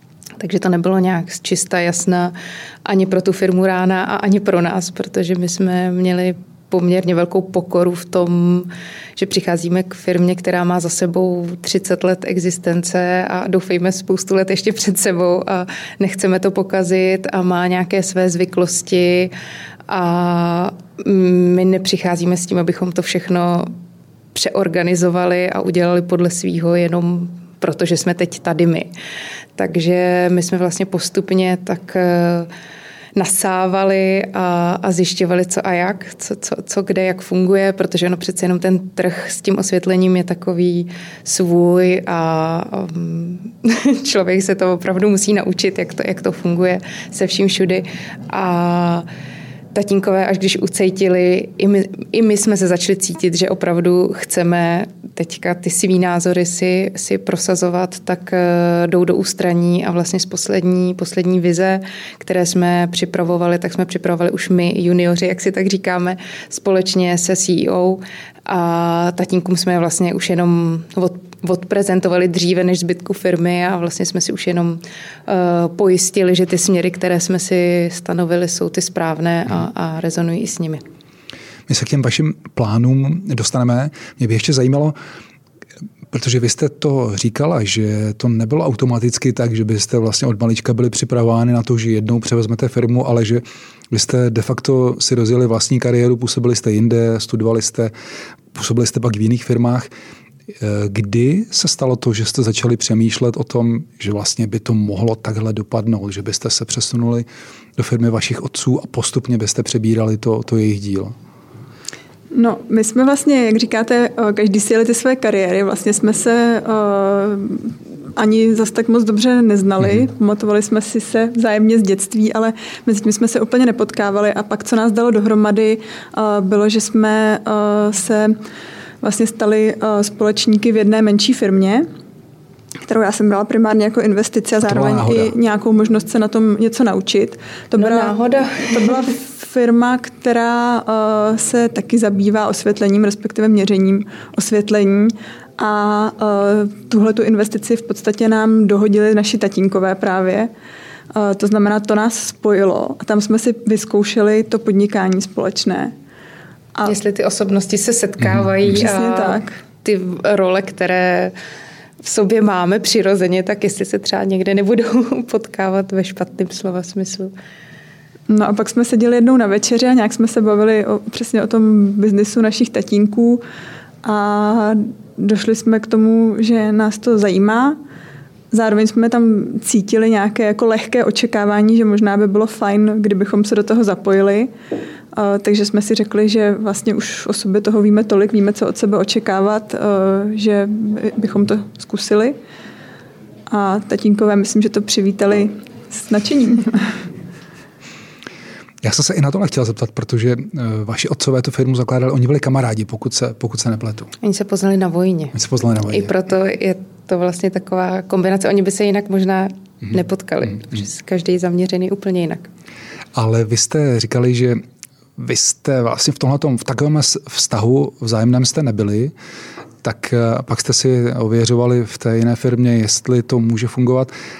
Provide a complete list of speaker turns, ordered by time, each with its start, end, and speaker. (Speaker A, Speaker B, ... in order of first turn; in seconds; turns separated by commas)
Speaker A: 0.4-19.3, Speaker A: 19.9-23.7, Speaker A: 24.3-28.9, Speaker A: 29.6-32.5, Speaker A: 33.1-49.0, Speaker A: 49.7-80.8, Speaker B: 81.7-85.0, Speaker B: 86.1-97.9, Speaker B: 98.5-99.9, Speaker B: 100.6-107.2, Speaker B: 107.8-111.1, Speaker C: 112.3-128.3, Speaker C: 129.0-131.8, Speaker C: 132.8-150.5, Speaker B: 134.6-135.3, Speaker A: 137.8-139.1, Speaker C: 151.1-155.9, Speaker A: 156.8-161.3, Speaker B: 158.2-158.5, Speaker C: 158.7-159.6, Speaker A: 162.0-167.3, Speaker C: 168.3-173.4, Speaker C: 174.0-177.8, Speaker C: 178.5-184.5, Speaker C: 185.1-192.4, Speaker C: 193.5-196.9, Speaker B: 198.8-204.1, Speaker A: 204.2-205.3, Speaker B: 205.3-206.1, Speaker A: 205.8-212.5, Speaker B: 213.2-214.6, Speaker B: 215.2-219.1, Speaker B: 219.8-224.1